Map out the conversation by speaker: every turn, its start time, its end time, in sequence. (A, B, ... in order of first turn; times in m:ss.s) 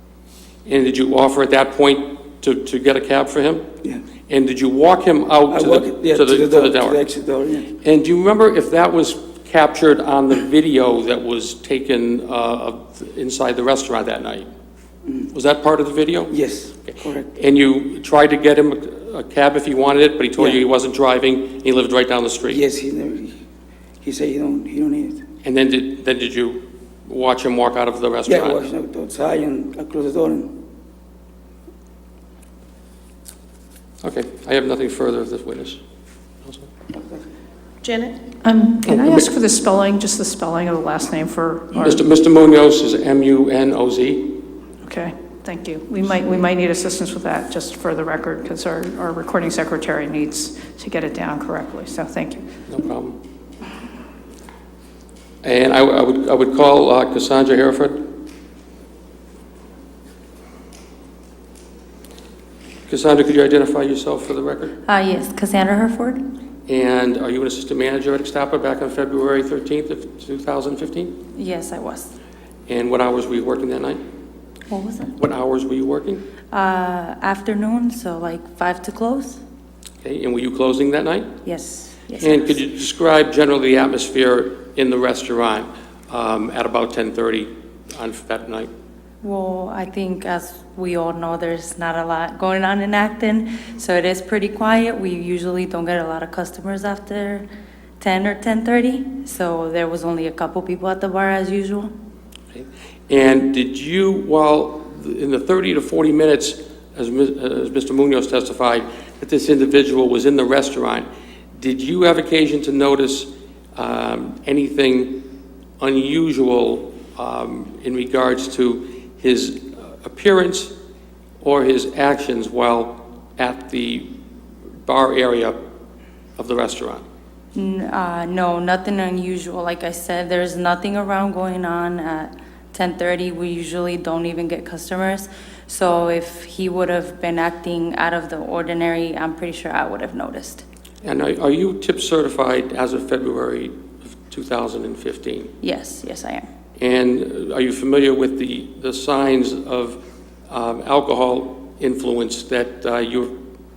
0:00.7-0:03.7 A
0:04.3-0:07.0 A
0:05.5-0:07.7 B
0:07.8-0:14.5 A
0:15.3-0:16.3 A
0:16.3-0:17.3 B
0:16.9-0:22.6 A
0:22.5-0:23.4 B
0:24.0-0:25.2 B
0:25.4-0:28.6 A
0:28.3-0:30.5 B
0:34.0-0:35.8 A
0:38.4-0:42.1 C
0:41.8-0:44.4 A
0:44.8-0:52.4 C
0:52.7-0:53.2 A
0:55.4-0:58.0 A
1:02.9-1:04.8 A
1:04.9-1:06.2 D
1:06.7-1:11.2 A
1:11.4-1:12.1 D
1:12.7-1:14.0 A
1:14.7-1:15.2 D
1:15.2-1:16.2 A
1:16.5-1:19.4 D
1:20.0-1:21.3 A
1:21.4-1:22.6 D
1:22.2-1:28.7 A
1:29.2-1:37.5 D
1:38.0-1:41.9 D
1:42.5-1:55.2 A
1:55.8-2:00.8 A
2:01.4-2:04.1 A
2:04.8-2:05.6 A
2:06.4-2:07.0 A
2:07.6-2:20.6 D
2:21.0-2:25.5 A
2:25.6-2:26.4 D
2:26.8-2:33.4 A